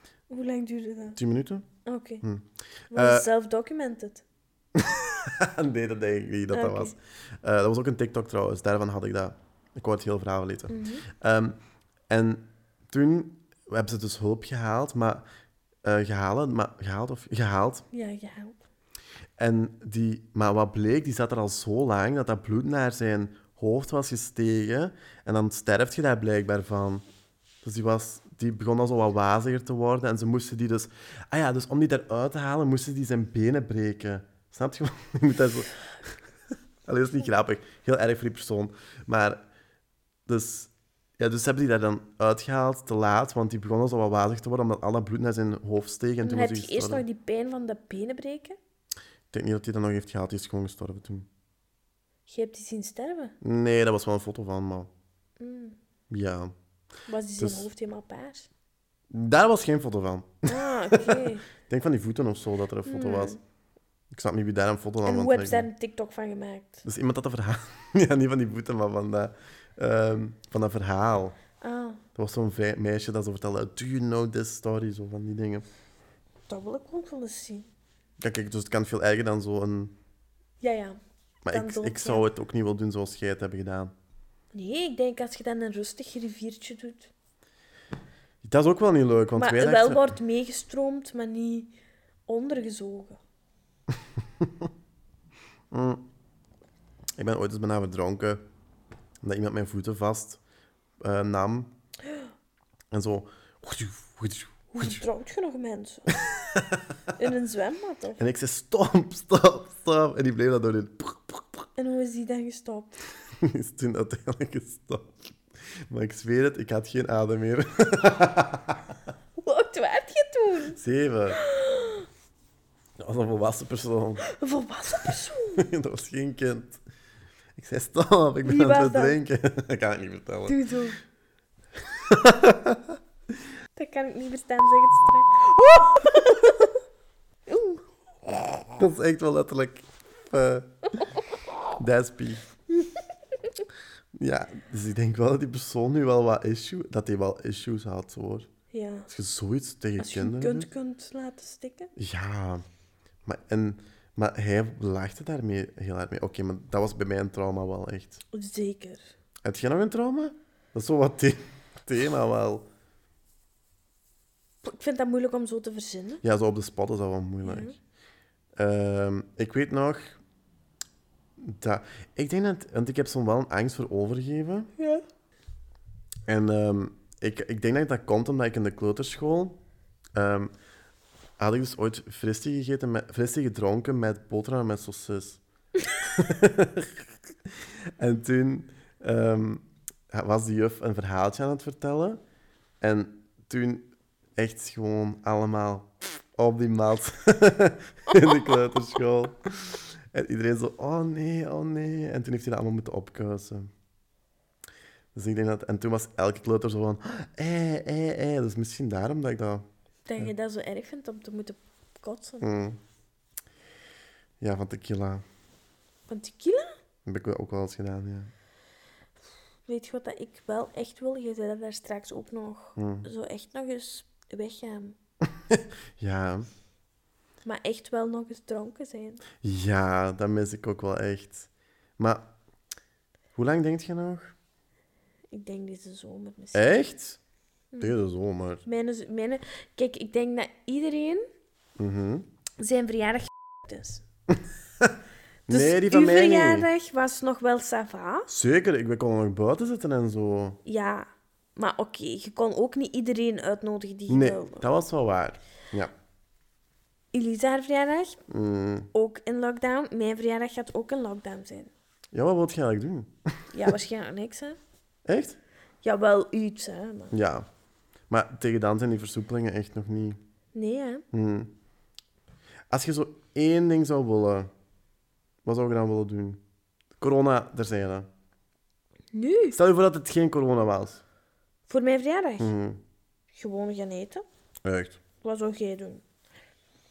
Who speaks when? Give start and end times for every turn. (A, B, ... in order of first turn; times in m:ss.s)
0:00.3-0:01.2 A
0:01.2-0:01.7 B
0:01.8-0:02.2 A
0:02.2-0:03.3 B
0:02.9-0:04.2 A
0:04.7-0:11.6 B
0:06.5-0:06.9 A
0:10.7-0:11.0 A
0:12.1-0:15.2 B
0:15.8-0:17.8 B
0:17.9-0:18.6 A
0:19.4-0:27.0 B
0:27.6-0:36.1 B
0:36.8-0:39.4 B
0:40.3-0:47.0 B
0:46.2-0:48.6 A
0:49.3-0:51.3 B
0:52.3-0:53.3 A
0:53.4-0:54.9 B
0:55.4-0:55.8 A
0:56.1-0:56.5 B
0:57.1-0:58.5 A
0:57.4-0:57.7 B
0:59.1-1:03.4 B
1:00.5-1:01.4 A
1:02.8-1:03.4 A
1:04.1-1:05.7 B
1:05.0-1:06.8 A
1:06.8-1:11.4 B
1:11.6-1:12.0 A
1:12.2-1:15.6 B
1:16.5-1:17.7 A
1:18.2-1:20.0 B
1:20.6-1:21.0 A
1:21.4-1:23.9 B
1:21.5-1:22.2 A
1:24.5-1:27.1 A
1:28.4-1:30.1 B
1:29.4-1:31.7 A
1:32.3-1:33.2 A
1:34.4-1:34.7 B
1:35.7-1:36.0 B
1:37.2-1:38.4 B
1:39.2-1:40.4 B
1:41.0-1:41.7 B
1:42.9-1:45.0 B
1:44.7-1:46.2 A
1:46.1-1:46.9 B
1:47.2-1:48.2 A
1:48.2-1:51.6 B
1:51.8-1:53.0 A
1:53.4-1:55.2 B
1:55.8-1:59.0 B
1:59.4-2:00.8 A
2:00.8-2:01.4 B
2:01.3-2:02.0 A
2:03.0-2:04.2 B
2:04.2-2:05.6 A
2:05.6-2:06.8 B
2:07.6-2:10.6 B
2:08.4-2:09.2 A
2:10.5-2:11.0 A
2:11.8-2:13.0 B
2:13.8-2:16.7 A
2:17.5-2:18.5 A
2:18.7-2:20.7 B
2:21.8-2:22.4 B
2:24.1-2:28.5 B
2:28.7-2:29.1 A
2:29.1-2:30.7 B
2:30.0-2:31.9 A
2:32.0-2:32.6 B
2:33.2-2:38.2 B
2:38.3-2:39.1 A
2:39.4-2:42.7 B
2:44.6-2:46.2 A
2:46.2-2:47.7 B
2:47.4-2:47.7 A
2:48.6-2:50.2 B
2:51.4-2:54.7 B
2:54.8-2:55.0 A
2:56.3-2:59.6 B
3:00.2-3:00.5 B
3:01.4-3:05.4 B
3:06.0-3:07.0 B
3:08.0-3:12.2 B
3:12.8-3:23.7 B
3:18.1-3:18.6 A
3:25.1-3:29.6 B
3:30.1-3:32.5 A
3:32.4-3:32.8 B
3:34.4-3:35.2 B
3:36.1-3:36.7 A
3:37.0-3:38.3 B
3:39.7-3:45.0 A
3:42.8-3:43.1 B
3:45.2-3:46.5 B
3:47.4-3:49.2 A
3:49.4-3:52.3 B
3:53.4-3:54.3 B
3:55.3-3:56.7 A
3:56.5-3:57.2 B
3:57.8-3:58.6 B
3:58.6-4:01.2 A
4:01.8-4:02.2 B
4:02.6-4:04.0 A
4:04.3-4:05.0 B
4:05.5-4:06.7 B
4:05.5-4:08.3 A
4:08.3-4:10.6 B
4:10.6-4:14.6 A
4:14.1-4:15.9 B
4:17.1-4:18.2 A
4:18.3-4:18.9 B
4:18.9-4:21.7 A
4:22.1-4:23.7 B
4:23.5-4:24.6 A
4:25.0-4:25.4 B
4:25.8-4:27.1 A
4:27.1-4:27.5 B
4:28.1-4:30.2 B
4:30.5-4:31.0 A
4:31.1-4:31.5 B
4:32.7-4:34.5 B
4:35.4-4:36.4 B
4:37.0-4:38.1 B
4:39.1-4:39.6 A
4:39.5-4:41.0 B
4:41.7-4:42.5 A
4:42.4-4:42.8 B
4:43.4-4:44.2 A
4:44.6-4:45.0 B
4:45.2-4:46.0 A